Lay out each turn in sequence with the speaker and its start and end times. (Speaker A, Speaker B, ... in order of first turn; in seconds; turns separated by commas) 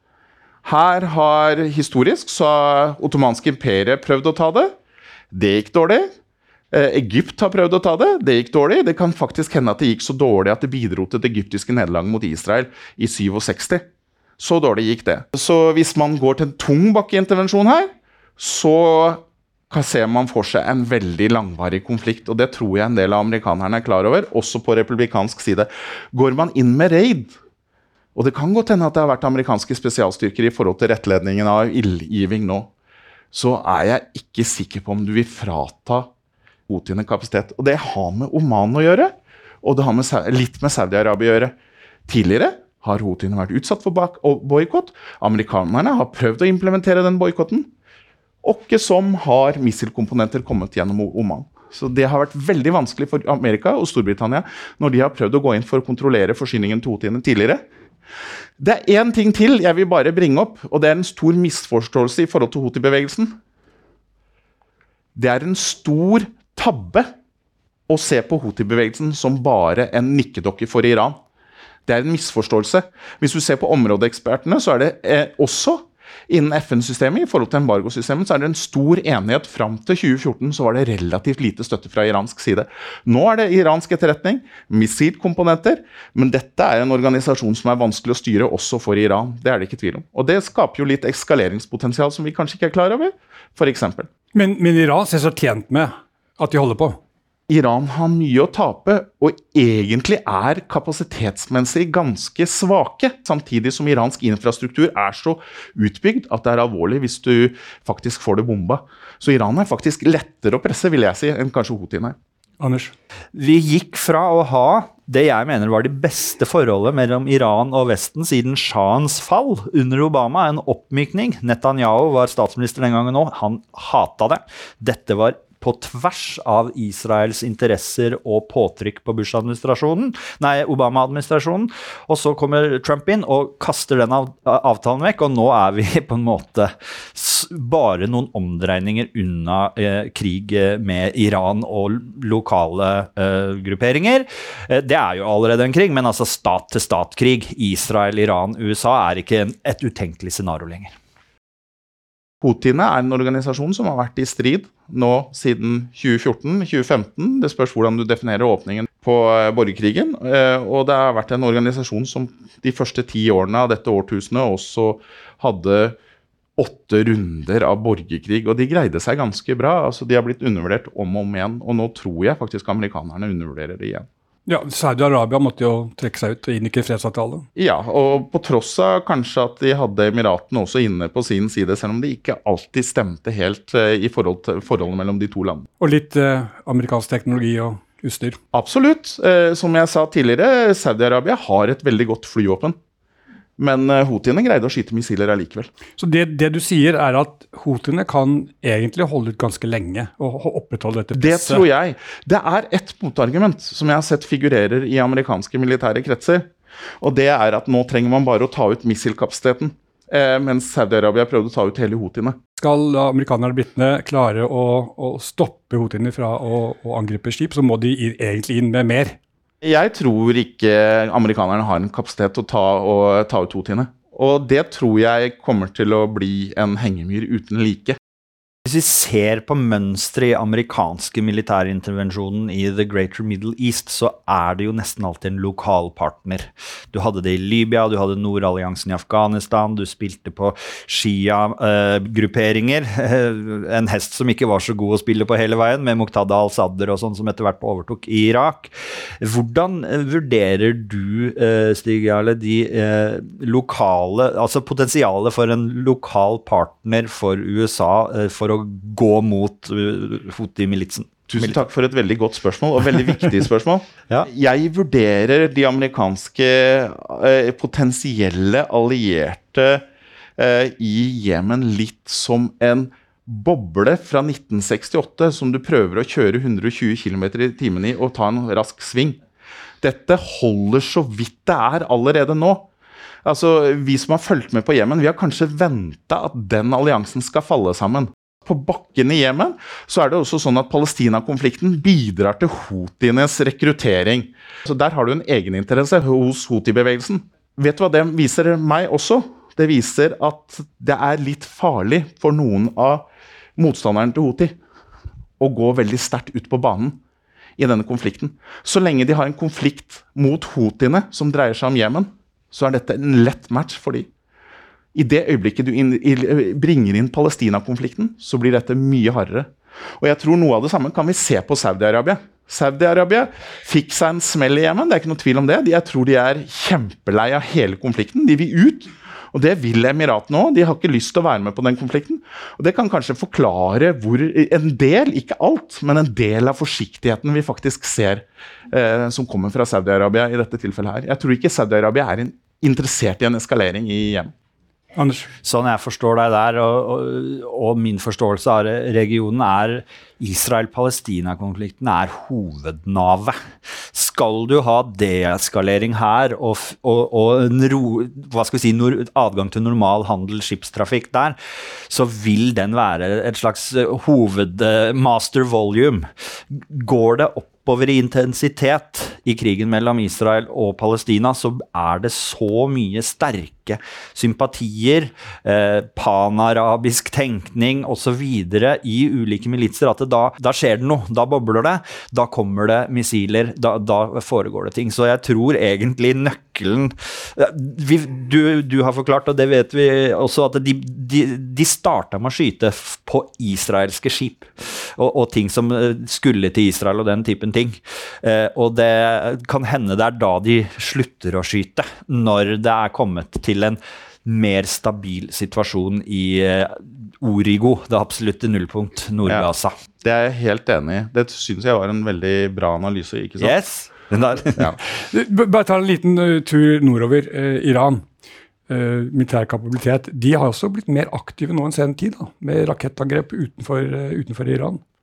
Speaker A: 0.6-4.7, Speaker A: 5.3-6.1, Speaker A: 6.7-13.8, Speaker A: 14.4-27.3, Speaker A: 28.1-32.7, Speaker A: 33.3-36.1, Speaker A: 36.7-41.5, Speaker A: 42.1-47.7, Speaker A: 48.4-57.6, Speaker A: 58.6-63.4, Speaker A: 65.1-67.1, Speaker A: 67.9-71.2, Speaker A: 71.8-94.1, Speaker B: 94.3-97.0, Speaker A: 97.5-112.2, Speaker B: 112.6-112.9, Speaker C: 113.3-150.9, Speaker A: 152.4-166.0, Speaker A: 166.6-174.1, Speaker B: 174.5-177.5, Speaker A: 177.6-185.6, Speaker B: 185.8-188.4, Speaker A: 188.5-192.8, Speaker A: 193.6-195.7, Speaker B: 196.0-201.6, Speaker A: 201.1-212.4, Speaker B: 212.6-219.2, Speaker A: 219.6-228.0, Speaker C: 228.6-261.6, Speaker A: 261.3-269.8, Speaker A: 270.4-279.2, Speaker A: 279.8-282.7, Speaker A: 283.2-304.6, Speaker A: 305.4-307.0, Speaker A: 307.6-314.1, Speaker A: 314.9-344.3, Speaker B: 344.9-345.3, Speaker C: 345.4-409.7, Speaker A: 409.2-409.5, Speaker A: 410.0-413.5, Speaker C: 413.4-414.7, Speaker B: 415.0-418.1, Speaker B: 418.7-424.8